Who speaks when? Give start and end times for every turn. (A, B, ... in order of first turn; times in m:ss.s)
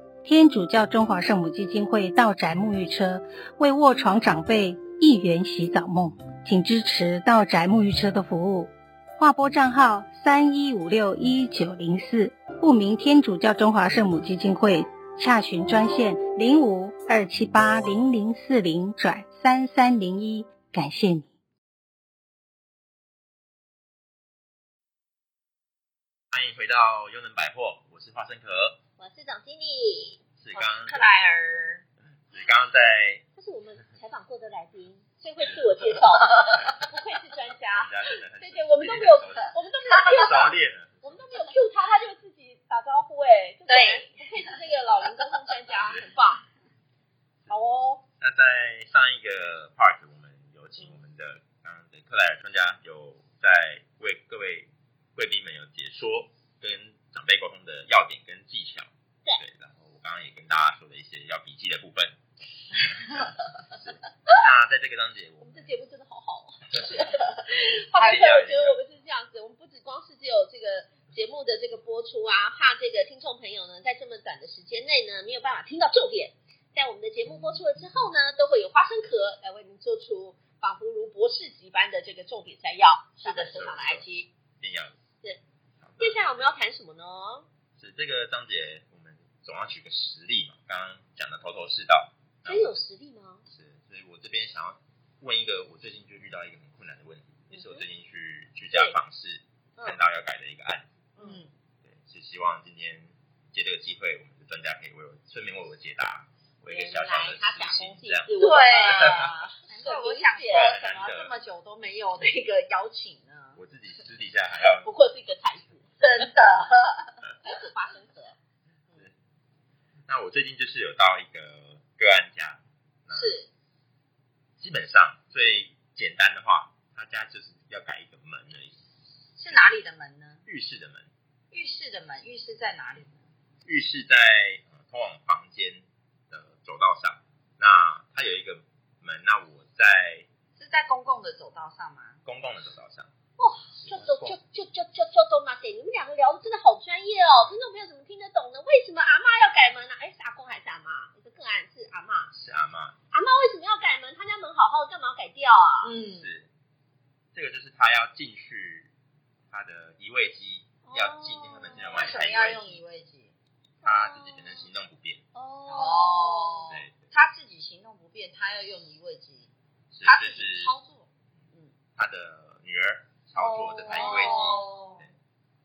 0:00.2-0:21.3 A
0:26.3-0:28.8 B
0:29.0-0:30.2 C
0:30.4-0:31.0 B
0:30.5-0:31.8 D
0:32.3-0:33.2 B
0:33.4-0:46.4 C
0:37.7-0:41.3 B
0:43.7-0:44.1 D
0:47.5-0:48.0 C
0:48.2-1:02.2 B
1:02.8-1:05.7 B
1:05.4-1:24.3 C
1:06.7-1:08.8 B
1:23.2-1:23.6 D
1:23.4-1:24.0 B
1:24.6-1:25.0 B
1:25.8-1:26.5 B
1:26.0-1:27.4 C
1:27.8-1:32.8 B
1:32.4-1:33.4 C
1:33.5-1:41.0 B
1:37.5-1:37.8 C
1:41.2-1:41.4 C
1:41.2-1:41.5 D
1:41.8-1:48.3 B
1:46.7-1:50.7 C
1:48.3-1:53.6 D
1:48.8-1:49.3 B
1:50.5-1:51.3 B
1:53.6-1:54.9 B
1:54.6-1:56.3 C
1:56.0-1:57.2 D
1:57.4-1:58.4 C
2:00.1-2:03.4 B
2:03.1-2:03.5 D
2:04.6-2:08.8 B
2:09.4-2:10.4 D
2:09.5-2:09.8 B
2:10.4-2:11.1 B
2:11.5-2:13.2 D
2:13.6-2:20.3 B
2:20.6-2:22.2 D
2:22.2-2:23.1 B
2:23.4-2:32.3 C
2:23.8-2:24.4 B
2:32.3-2:33.0 B
2:33.1-2:35.9 C
2:35.8-2:36.3 D
2:36.1-2:36.5 B
2:37.3-2:38.9 B
2:39.5-2:42.8 B
2:40.8-2:42.1 C
2:41.9-2:43.3 D
2:43.8-2:44.7 C
2:43.8-2:45.2 B
2:45.3-2:46.7 C
2:45.7-2:49.5 D
2:46.7-2:47.0 B
2:49.9-2:50.7 B
2:50.0-2:51.7 D
2:52.0-2:55.1 B
2:53.4-2:54.9 C
2:53.9-2:55.0 D